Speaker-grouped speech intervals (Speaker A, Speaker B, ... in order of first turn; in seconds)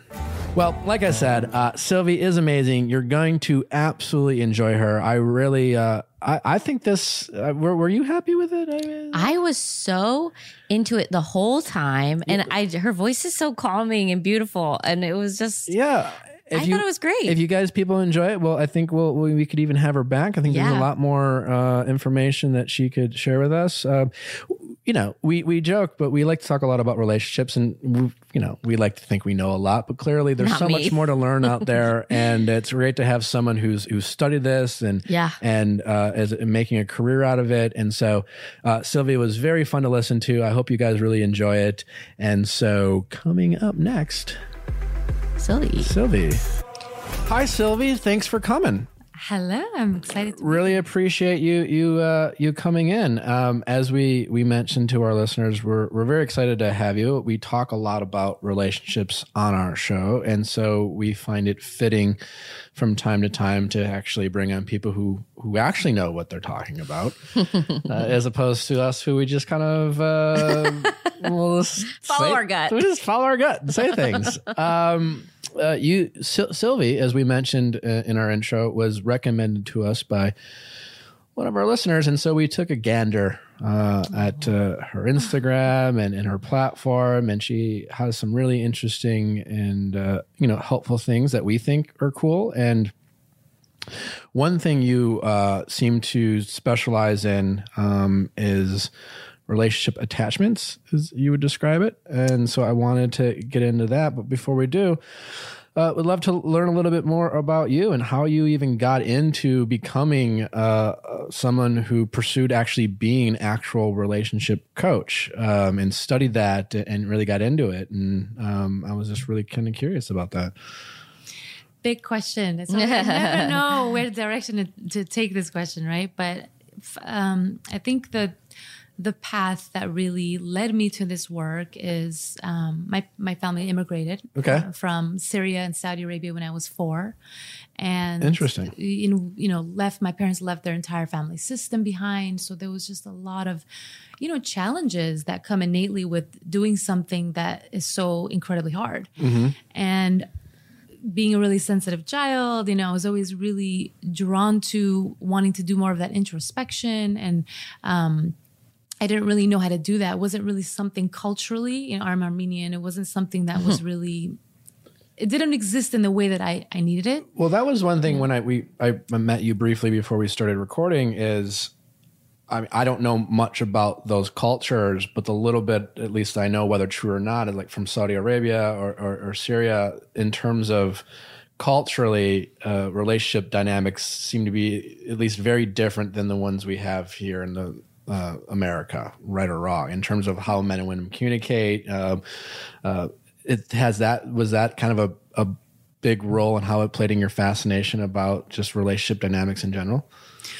Speaker A: 0.5-9.3, 15.7-44.4, 45.8-46.4, 47.3-48.9, 50.4-62.2, 62.7-80.3, 81.3-92.9, 94.3-98.9, 99.5-105.0, 105.7-120.5, 134.3-134.7, 138.2-138.7, 149.2-149.6, 167.3-171.7, 172.5-181.0, 181.6-192.2, 192.8-200.1
Speaker B: 9.1-15.7, 16.5-17.4, 20.5-20.9, 30.4-31.7, 35.1-35.4, 45.4-45.9, 70.4-70.8, 72.0-72.8, 73.9-74.4, 122.7-123.6
Speaker C: 49.2-50.8, 121.8-128.3, 129.0-137.2, 137.8-143.6, 144.2-149.2, 149.7-150.3, 151.0-158.3, 159.0-164.4, 165.2-167.3